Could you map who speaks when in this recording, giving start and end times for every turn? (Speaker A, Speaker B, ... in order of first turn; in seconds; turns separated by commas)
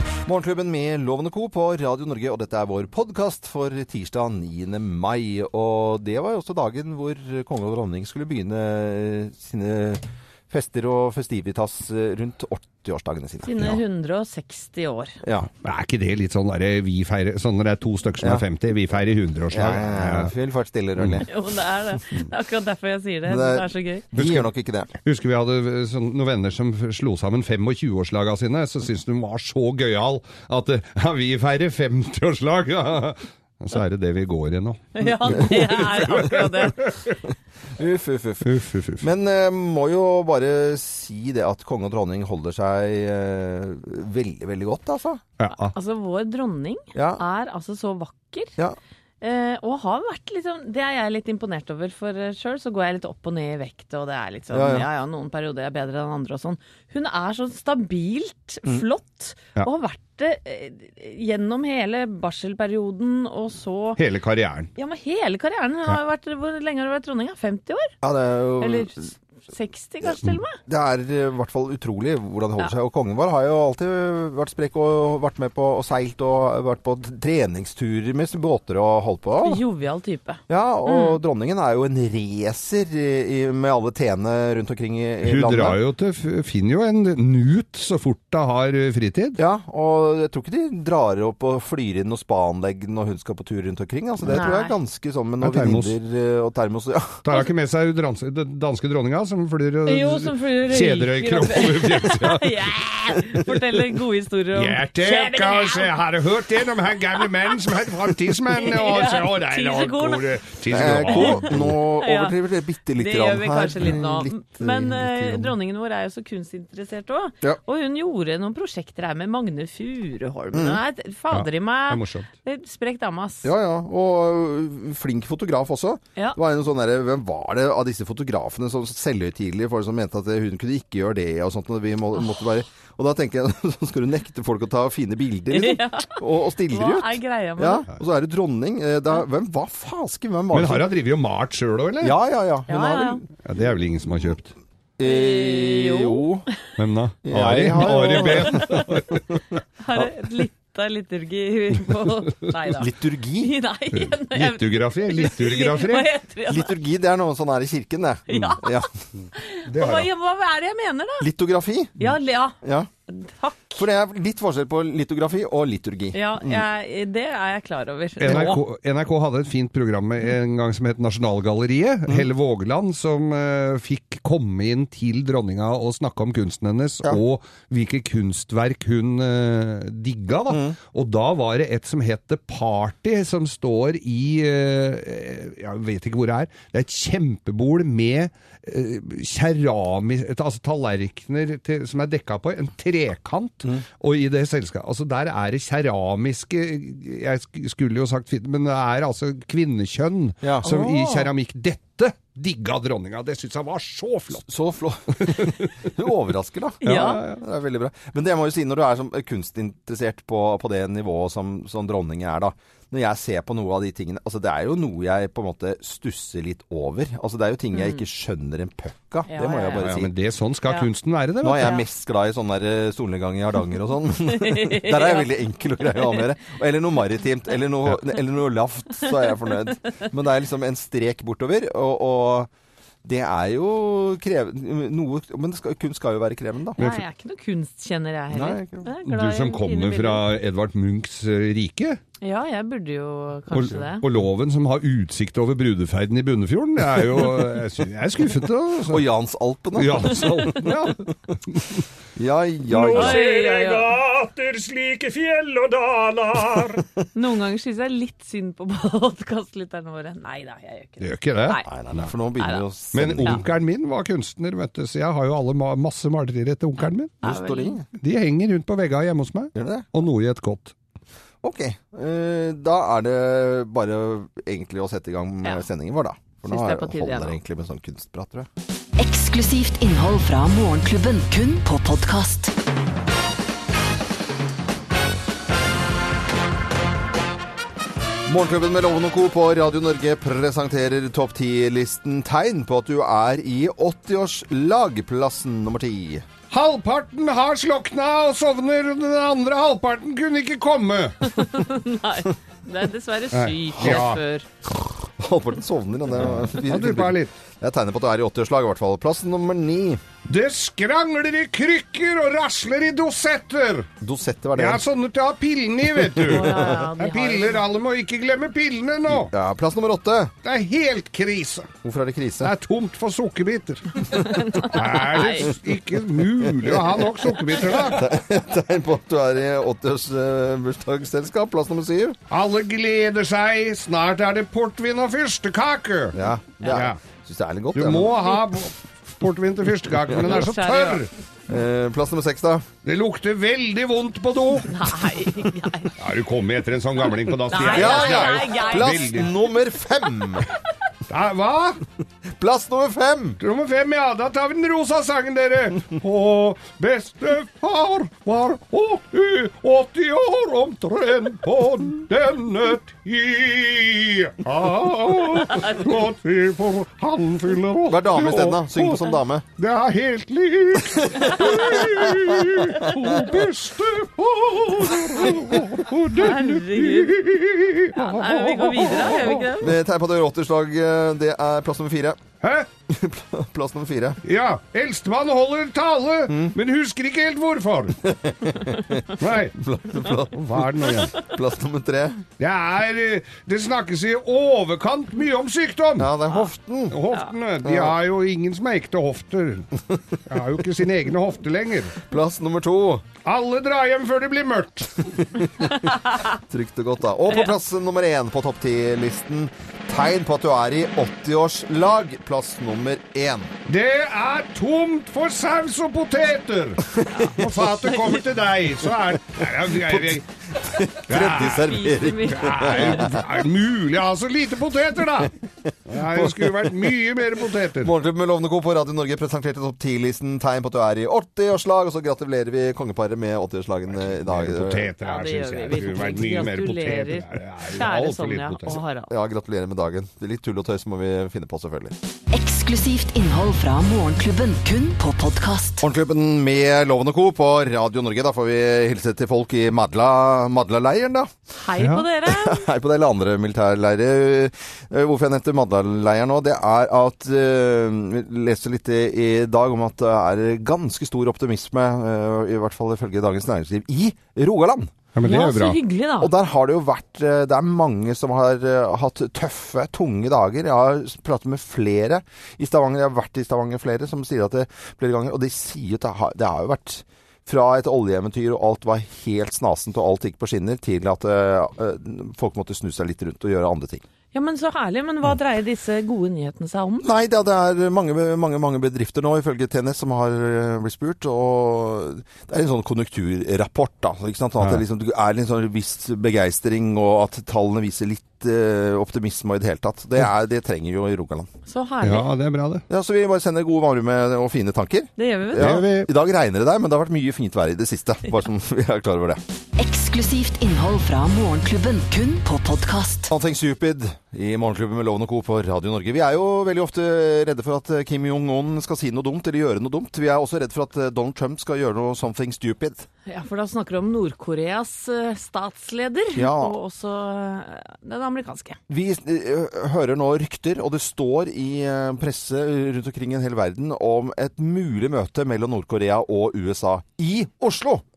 Speaker A: 0.2-13.8, Speaker B: 13.4-15.2, Speaker A: 15.2-15.5, Speaker C: 15.6-20.3, Speaker A: 19.5-21.3, Speaker B: 21.2-24.0, Speaker A: 23.3-24.9, Speaker C: 24.1-24.5, Speaker C: 25.0-37.2, Speaker B: 35.0-36.9, Speaker A: 37.7-45.2, Speaker C: 38.4-39.0, Speaker C: 45.4-45.7, Speaker B: 45.5-48.5, Speaker A: 46.9-47.2, Speaker B: 49.2-64.0, Speaker A: 54.5-54.9, Speaker C: 64.0-64.7, Speaker B: 64.8-67.9, Speaker A: 68.0-69.1, Speaker B: 68.6-70.6, Speaker A: 70.7-79.6, Speaker B: 79.4-81.2, Speaker A: 80.5-85.8, Speaker C: 85.2-89.4, Speaker A: 89.4-97.2, Speaker B: 94.3-94.7, Speaker C: 95.4-95.9, Speaker C: 97.2-102.8, Speaker B: 99.9-105.9, Speaker C: 104.5-111.7, Speaker B: 107.2-107.7, Speaker B: 108.5-112.3, Speaker A: 110.7-115.5, Speaker B: 113.0-123.5, Speaker A: 120.5-120.8, Speaker C: 121.3-122.3, Speaker A: 123.4-140.9, Speaker B: 135.5-137.8, Speaker C: 140.5-142.2, Speaker A: 142.0-143.3, Speaker B: 142.7-143.2, Speaker C: 143.4-144.5, Speaker A: 145.0-146.5, Speaker B: 145.0-146.3, Speaker C: 146.8-149.6, Speaker A: 147.2-149.4, Speaker B: 147.8-148.9, Speaker B: 149.8-156.8, Speaker A: 152.7-153.5, Speaker C: 153.9-156.1, Speaker A: 156.5-159.0, Speaker B: 158.3-161.3, Speaker C: 159.7-160.1, Speaker A: 161.2-162.1, Speaker B: 162.0-163.8, Speaker A: 162.6-162.9, Speaker A: 163.8-166.6, Speaker B: 166.1-168.6, Speaker C: 168.2-204.5, Speaker A: 168.3-168.5, Speaker A: 180.5-180.8, Speaker A: 200.4-201.3, Speaker A: 204.4-220.1, Speaker C: 205.2-205.9, Speaker B: 206.8-207.2, Speaker C: 206.8-207.4, Speaker B: 217.7-218.0, Speaker B: 219.3-219.8, Speaker C: 219.8-221.7, Speaker A: 221.4-232.5, Speaker B: 224.3-225.3, Speaker B: 225.9-226.2, Speaker A: 233.0-236.8, Speaker C: 236.8-237.0, Speaker B: 236.8-240.2, Speaker A: 238.3-238.9, Speaker C: 239.0-242.0, Speaker B: 242.2-244.0, Speaker C: 243.5-249.1, Speaker A: 248.9-251.4, Speaker C: 249.7-251.8, Speaker A: 252.2-253.2, Speaker C: 252.7-256.9, Speaker B: 252.9-253.9, Speaker B: 257.1-261.7, Speaker C: 261.0-262.1, Speaker A: 261.6-263.4, Speaker B: 262.4-262.6, Speaker C: 262.9-267.2, Speaker B: 267.2-267.8, Speaker A: 267.2-267.9, Speaker C: 268.0-270.7, Speaker A: 269.5-269.9, Speaker A: 271.4-278.5, Speaker B: 276.4-277.4, Speaker D: 279.0-282.5, Speaker A: 288.3-296.2, Speaker C: 296.5-301.5, Speaker B: 301.2-304.4, Speaker C: 303.3-304.2, Speaker A: 304.8-310.0, Speaker C: 306.2-307.3, Speaker C: 310.3-313.9, Speaker A: 314.0-314.8, Speaker C: 314.5-319.3, Speaker A: 315.9-316.8, Speaker B: 316.3-317.6, Speaker A: 319.1-320.3, Speaker C: 320.4-321.7, Speaker A: 321.8-322.5, Speaker C: 322.4-324.1, Speaker B: 324.1-325.5, Speaker C: 324.6-328.1, Speaker A: 326.4-332.2, Speaker C: 332.3-337.0, Speaker A: 336.1-338.4, Speaker C: 337.7-341.1, Speaker B: 340.2-341.0, Speaker A: 341.5-342.7, Speaker C: 342.8-345.0, Speaker B: 344.7-345.9, Speaker C: 346.0-349.3, Speaker B: 347.5-349.2, Speaker A: 347.6-350.5, Speaker C: 351.1-351.8, Speaker A: 352.3-353.4, Speaker C: 353.4-379.5, Speaker A: 367.9-369.4, Speaker A: 370.9-373.3, Speaker B: 371.2-371.5, Speaker A: 375.1-375.4, Speaker B: 376.1-377.1, Speaker B: 377.9-379.7, Speaker A: 379.6-382.2, Speaker C: 382.4-382.7, Speaker A: 382.9-384.2, Speaker C: 384.2-388.0, Speaker A: 386.3-386.6, Speaker A: 388.0-392.2, Speaker C: 389.2-389.6, Speaker C: 390.3-391.1, Speaker C: 392.4-396.1, Speaker A: 396.0-397.0, Speaker C: 396.9-402.0, Speaker A: 397.6-397.9, Speaker A: 402.1-403.1, Speaker C: 403.2-405.3, Speaker A: 405.3-413.5, Speaker B: 405.8-406.2, Speaker C: 413.6-420.2, Speaker A: 416.9-417.5, Speaker A: 419.6-423.2, Speaker C: 421.1-421.8, Speaker B: 421.5-423.0, Speaker C: 422.3-425.4, Speaker A: 425.6-426.8, Speaker C: 425.9-427.9, Speaker A: 427.8-434.9, Speaker C: 433.9-438.8, Speaker B: 435.0-439.1, Speaker A: 439.1-441.9, Speaker D: 442.3-445.8, Speaker A: 445.8-451.3, Speaker B: 451.6-452.6, Speaker C: 451.8-452.1, Speaker A: 452.2-464.9, Speaker C: 465.1-465.8, Speaker B: 465.2-466.3, Speaker A: 466.2-484.0, Speaker B: 484.3-487.1, Speaker A: 487.0-501.5, Speaker B: 501.6-502.3, Speaker C: 502.0-502.8, Speaker A: 502.9-509.4, Speaker B: 505.2-505.8, Speaker C: 505.6-506.1, Speaker D: 509.8-513.3, Speaker A: 513.3-523.1, Speaker B: 523.3-528.8, Speaker A: 526.3-526.8, Speaker A: 528.9-538.0